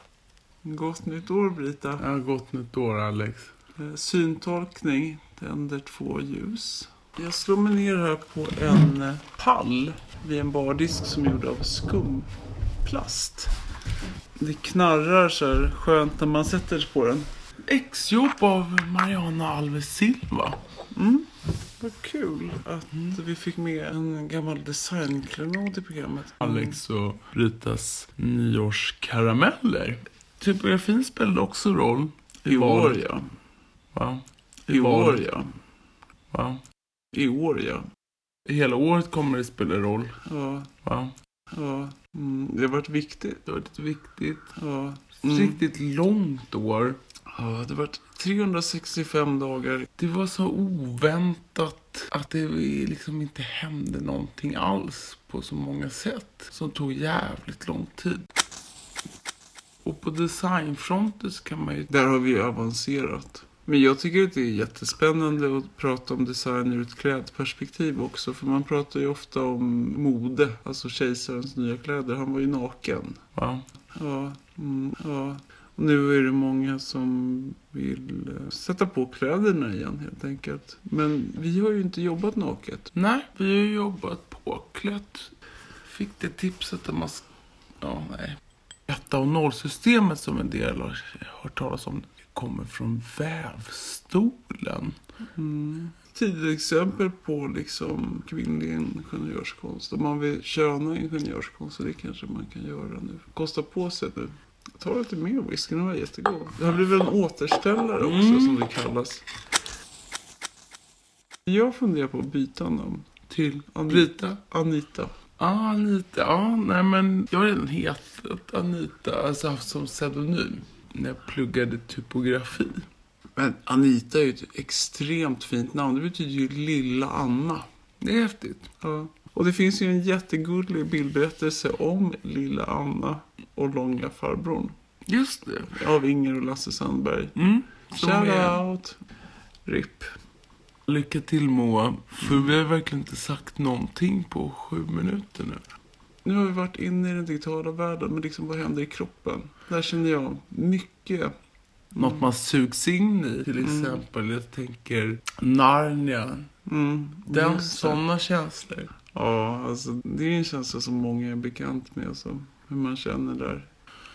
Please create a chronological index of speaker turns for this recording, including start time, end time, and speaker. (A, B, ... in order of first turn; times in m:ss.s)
0:00.6-0:02.1 A
0:02.0-0:03.5 B
0:03.8-0:12.3 A
0:12.8-0:13.6 A
0:14.4-0:17.3 A
0:17.7-0:20.6 B
0:20.9-0:26.8 A
0:26.4-0:33.0 B
0:32.4-0:33.3 A
0:33.9-0:35.3 B
0:34.7-0:35.5 A
0:36.3-0:36.6 B
0:37.1-0:37.9 A
0:38.5-0:40.2 B
0:40.2-0:40.7 A
0:40.8-0:41.2 B
0:41.5-0:43.4 A
0:43.5-0:44.5 B
0:44.5-0:45.6 A
0:45.2-0:47.0 B
0:47.3-0:49.9 A
0:50.0-0:58.3 B
0:59.8-1:01.9 B
1:01.9-1:13.2 A
1:13.4-1:13.7 B
1:13.9-1:22.9 A
1:22.9-1:25.3 B
1:25.8-1:27.3 B
1:27.8-1:35.0 B
1:35.4-1:49.2 A
1:48.0-1:48.7 B
1:51.5-1:53.1 A
1:53.3-1:54.4 B
1:53.7-1:55.2 A
1:55.4-2:02.9 B
2:03.4-2:07.6 A
2:08.0-2:08.7 B
2:08.8-2:14.8 A
2:15.1-2:15.9 B
2:15.7-2:17.4 A
2:17.4-2:18.6 B
2:17.9-2:19.0 A
2:19.6-2:20.1 A
2:20.9-2:25.6 B
2:26.2-2:31.3 A
2:31.9-2:32.3 A
2:32.0-2:36.5 B
2:33.6-2:34.0 A
2:36.7-2:38.0 A
2:37.3-2:38.9 B
2:39.1-2:43.7 A